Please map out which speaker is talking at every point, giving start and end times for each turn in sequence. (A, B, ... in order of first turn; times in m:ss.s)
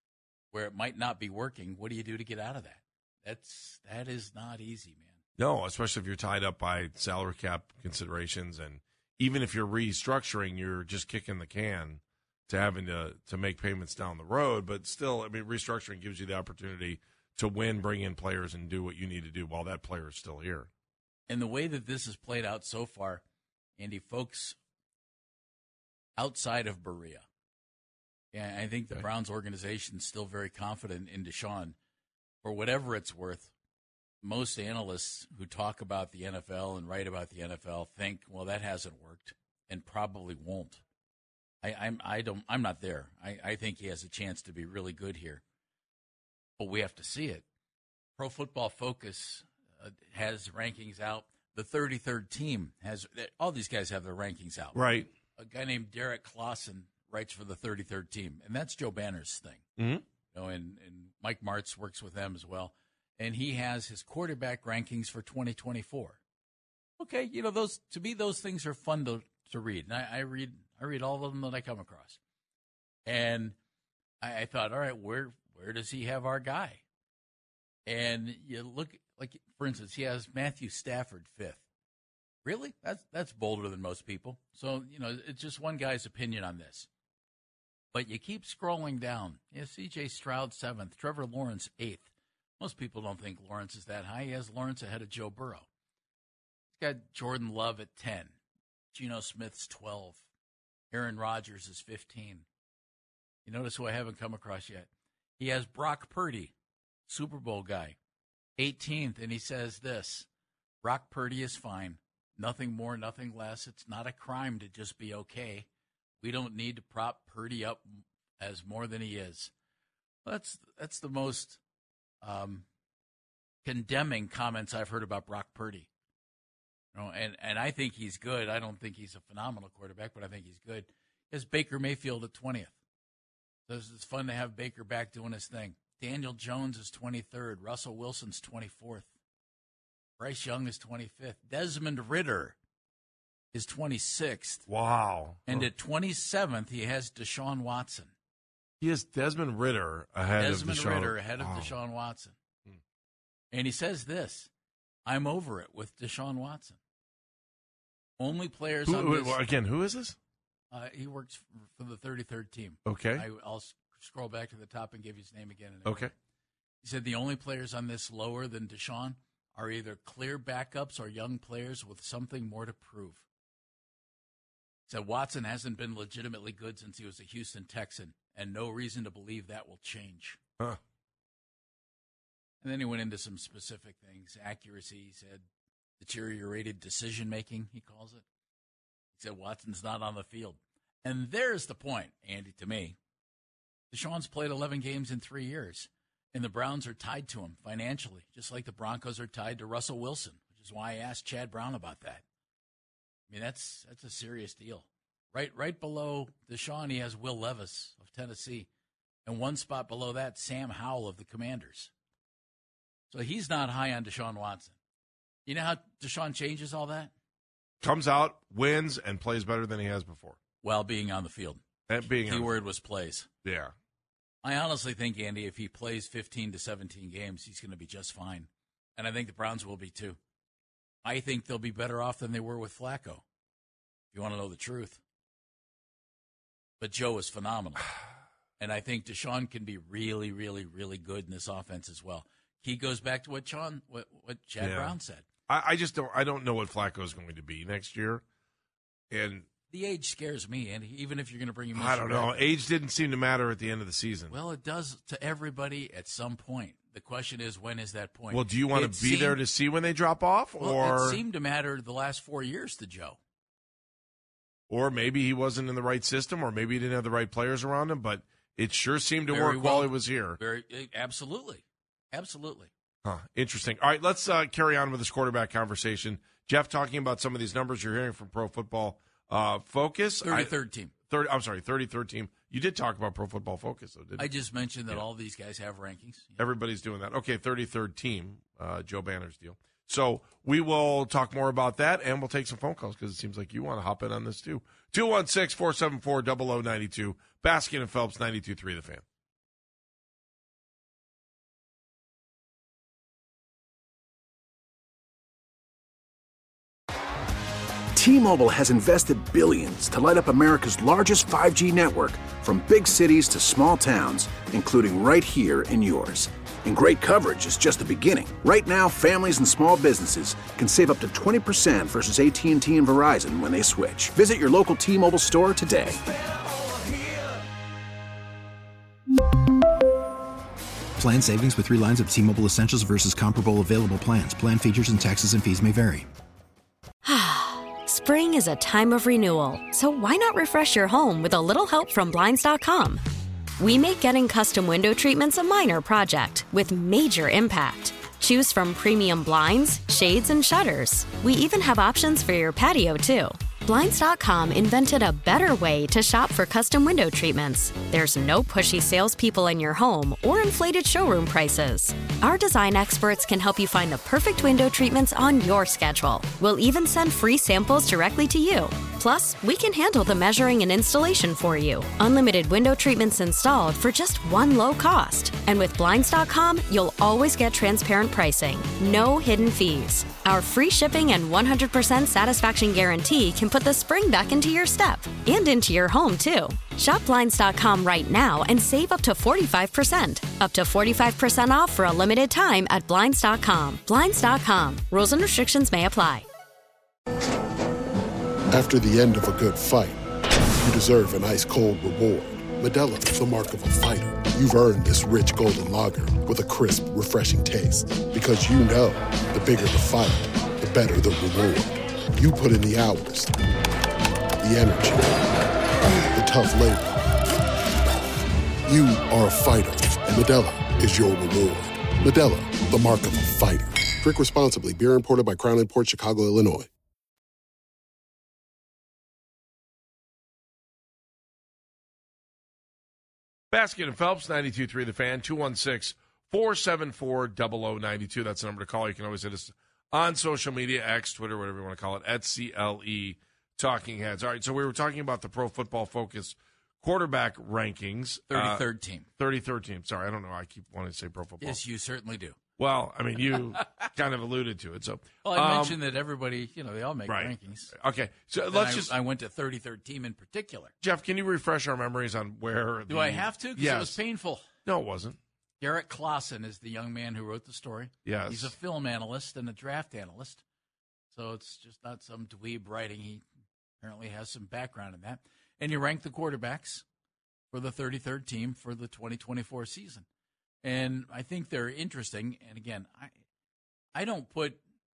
0:00.5-0:05.2 A
0:05.4-0:20.7 B
0:21.3-0:23.2 A
0:23.8-0:24.6 A
0:26.2-0:27.2 A
0:28.3-0:31.8 A
0:32.4-0:33.5 A
0:34.2-0:40.8 A
0:41.6-0:45.4 A
0:46.6-0:47.4 A
0:48.2-0:54.8 A
0:54.7-0:55.1 B
0:55.4-0:59.6 A
0:59.8-1:00.0 B
1:00.3-1:06.2 A
1:07.0-1:12.2 A
1:13.0-1:13.6 A
1:14.2-1:16.8 A
1:17.9-1:21.6 A
1:22.4-1:26.9 A
1:27.9-1:32.0 A
1:32.6-1:35.6 A
1:36.8-1:38.4 A
1:38.9-1:40.2 A
1:40.9-1:42.4 A
1:43.4-1:44.9 A
1:45.4-1:46.5 A
1:47.1-1:48.0 A
1:48.6-1:50.3 A
1:50.8-1:55.7 A
1:56.2-1:59.5 A
2:00.2-2:01.6 A
2:02.2-2:02.6 A
2:03.6-2:05.9 A
2:06.9-2:12.7 A
2:13.7-2:19.1 A
2:20.2-2:22.6 A
2:23.5-2:24.6 A
2:24.7-2:25.7 B
2:25.4-2:28.1 A
2:28.8-2:31.7 B
2:30.4-2:32.3 A
2:33.5-2:34.5 A
2:35.0-2:36.8 A
2:38.2-2:39.4 A
2:38.9-2:40.2 B
2:40.7-2:46.1 A
2:42.8-2:43.2 B
2:45.9-2:46.1 B
2:46.8-2:53.2 A
2:54.9-3:00.4 A
3:02.6-3:05.4 A
3:06.0-3:08.2 A
3:09.2-3:13.0 A
3:13.9-3:22.2 A
3:23.3-3:28.7 A
3:29.2-3:31.9 A
3:33.1-3:34.8 A
3:35.4-3:37.1 A
3:37.8-3:40.4 B
3:40.6-3:41.6 A
3:41.9-3:42.5 B
3:42.2-3:43.3 A
3:43.4-3:43.7 B
3:44.4-3:50.2 A
3:51.0-3:53.2 A
3:54.1-3:55.0 A
3:56.8-3:57.9 A
3:58.6-4:05.2 A
4:04.6-4:05.0 B
4:05.5-4:08.2 B
4:09.1-4:09.4 B
4:09.7-4:12.5 A
4:11.7-4:14.3 B
4:14.3-4:19.4 A
4:18.3-4:21.2 B
4:20.6-4:23.2 A
4:24.7-4:30.4 B
4:29.3-4:32.7 A
4:33.0-4:40.5 B
4:40.2-4:40.9 A
4:41.1-4:44.3 B
4:44.2-4:46.4 A
4:46.4-4:59.0 B
5:07.9-5:26.0 C
5:31.0-5:36.0 D
5:37.0-5:43.0 E
5:43.6-6:36.2 E
6:38.5-6:40.0 F
6:40.6-6:53.3 F
6:54.4-6:55.2 F
6:56.1-6:57.0 F
6:58.7-7:06.7 F
7:13.5-7:28.6 B
7:28.3-7:29.1 A
7:29.2-7:31.6 B
7:31.4-7:32.4 A
7:32.6-7:35.8 B
7:35.2-7:37.7 A
7:37.0-7:38.9 B
7:38.5-7:40.7 A
7:40.8-7:44.0 B
7:42.9-7:44.5 A
7:44.6-7:45.2 B
7:45.6-7:50.4 A
7:48.0-7:48.5 B
7:51.1-7:53.2 A
7:53.8-7:56.8 A
7:57.5-8:00.0 A
8:00.6-8:03.1 A
8:03.9-8:04.6 A